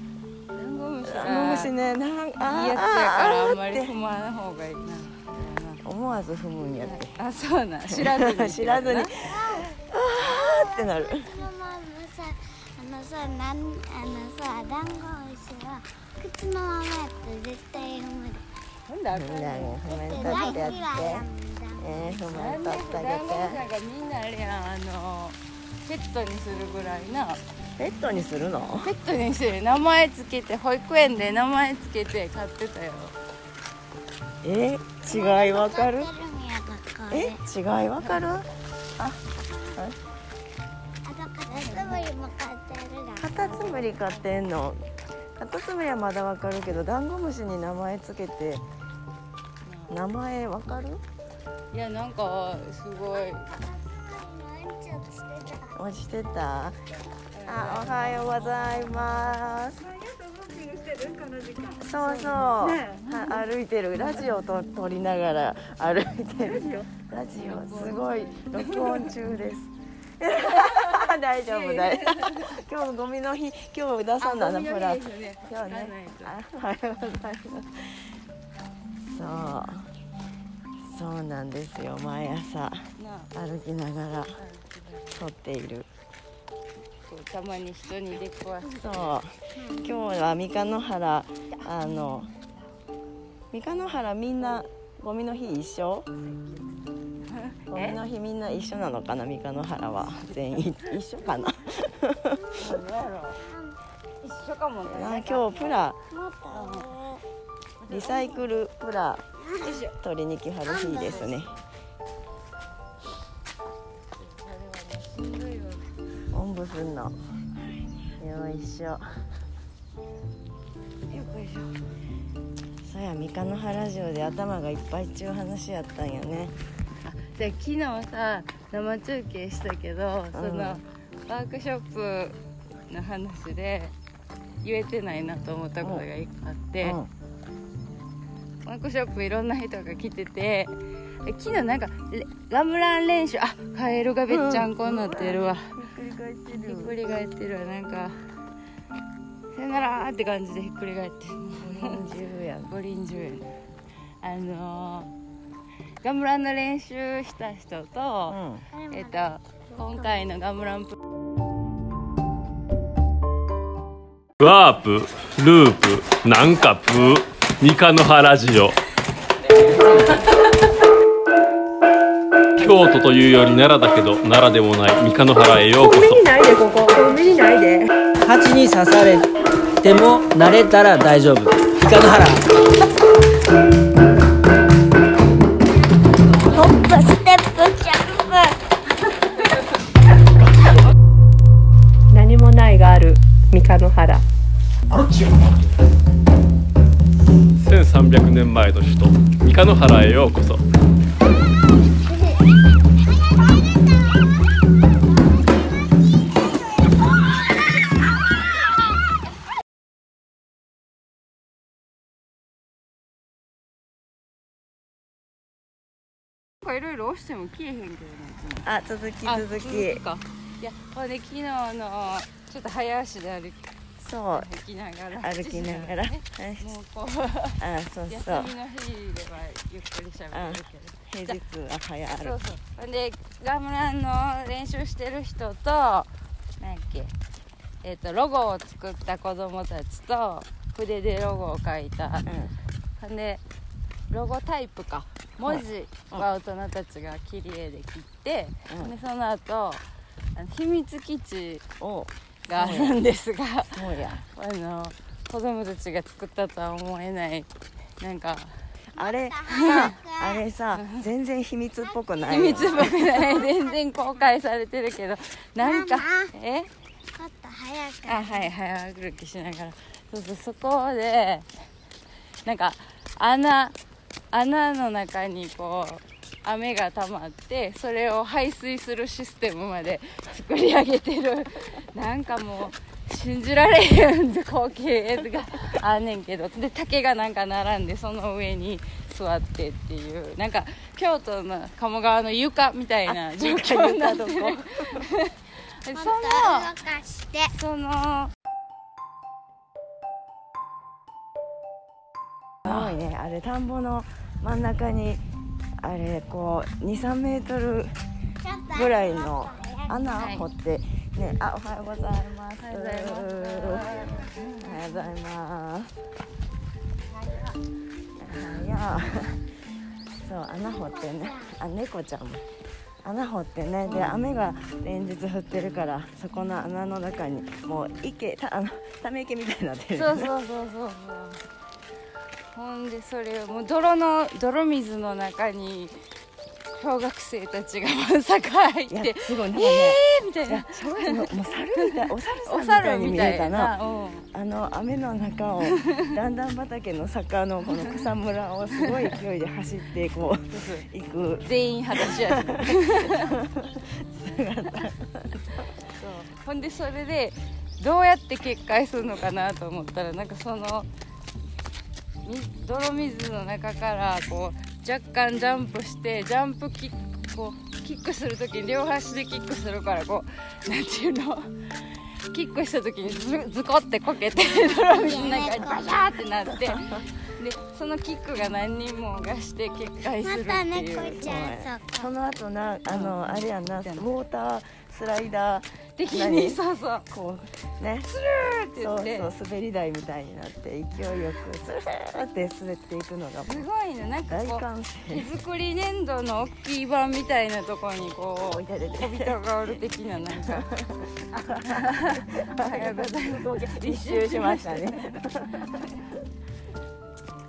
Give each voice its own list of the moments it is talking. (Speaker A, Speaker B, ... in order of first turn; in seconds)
Speaker A: 0.5-1.7, 2.4-5.8, 6.8-9.1, 18.9-20.8, 22.3-27.4, 28.8-33.1, 41.6-42.1, 43.4-44.5, 49.6-50.0, 51.7-53.5, 56.9-63.4, 66.5-69.1, 70.5-72.6, 74.2-76.4, 83.0-83.3, 84.4-85.2, 87.1-89.2, 93.8-94.7, 96.3-98.0, 102.6-103.4, 104.2-105.8, 106.5-106.9, 107.8-108.6, 109.6-110.0, 111.0-111.5, 114.1-115.9, 121.1-121.7, 127.0-132.4, 132.9-133.9, 134.6-137.0, 138.7-145.8, 146.5-148.2, 149.5-152.1, 152.7-153.5, 154.2-155.1, 156.0-158.4, 158.9-161.0, 216.6-218.7, 219.2-223.7, 224.3-231.4, 232.2-237.1, 237.8-242.3, 243.0-243.4, 244.1-249.8, 250.3-251.6, 252.5-258.6, 259.5-259.9, 260.8-261.0, 262.3-266.7, 268.1-271.5, 272.4-273.8, 274.3-296.9, 297.5-298.3, 310.2-310.5, 312.6-314.8, 323.9-324.2, 329.9-331.4, 332.5-336.0, 336.8-344.3, 348.8-349.1, 350.5-350.9, 351.4-353.4, 355.9-360.9, 362.2-381.4, 382.9-384.1, 386.0-387.1, 388.1-389.3, 393.5-400.7, 401.3-406.0
Speaker B: 1.0-3.9, 5.8-7.2, 7.9-11.4, 19.1-21.3, 21.8-23.6, 27.8-28.9, 34.4-36.1, 37.1-39.2, 43.2-44.8, 45.4-48.6, 49.9-51.0, 55.8-56.8, 57.5-59.9, 61.8-78.0, 79.0-79.9, 80.8-84.4, 85.2-85.9, 88.7-92.3, 93.5-96.1, 97.7-102.4, 104.9-106.0, 107.9-109.2, 109.9-111.6, 116.3-117.2, 118.2-119.0, 122.8-126.5, 130.3-130.8, 136.8-137.1, 144.3-147.0, 151.6-152.8, 158.3-158.7, 218.7-220.0, 224.0-224.5, 225.1-226.8, 227.6-228.5, 230.3-232.4, 242.2-242.6, 245.4-246.3, 248.7-248.9, 251.8-253.0, 253.7-254.3, 258.9-263.0, 293.1-295.1, 302.6-305.2, 305.8-307.9, 308.7-315.9, 318.2-319.4, 320.1-322.4, 323.0-330.3, 338.9-343.8, 344.3-355.7, 381.1-388.1, 388.8-393.7, 394.3-395.3, 398.5-399.4, 400.3-406.0
Speaker C: 9.2-9.8, 10.3-18.4, 19.9-22.2, 35.1-37.4, 41.0-43.8, 53.1-55.9, 89.5-89.9, 102.4-102.7, 103.4-103.8, 106.1-107.2, 109.4-109.8, 110.7-111.4, 158.7-160.3, 186.4-188.6, 202.1-202.4, 258.9-260.4, 261.9-264.1, 265.6-266.3, 267.1-268.5, 295.9-297.6, 308.4-310.0, 320.6-321.5, 374.9-376.2, 380.2-382.1
Speaker D: 164.4-168.8, 172.6-176.3, 197.6-200.6
Speaker E: 176.0-177.9, 192.1-194.3
Speaker F: 178.2-179.2, 179.8-182.4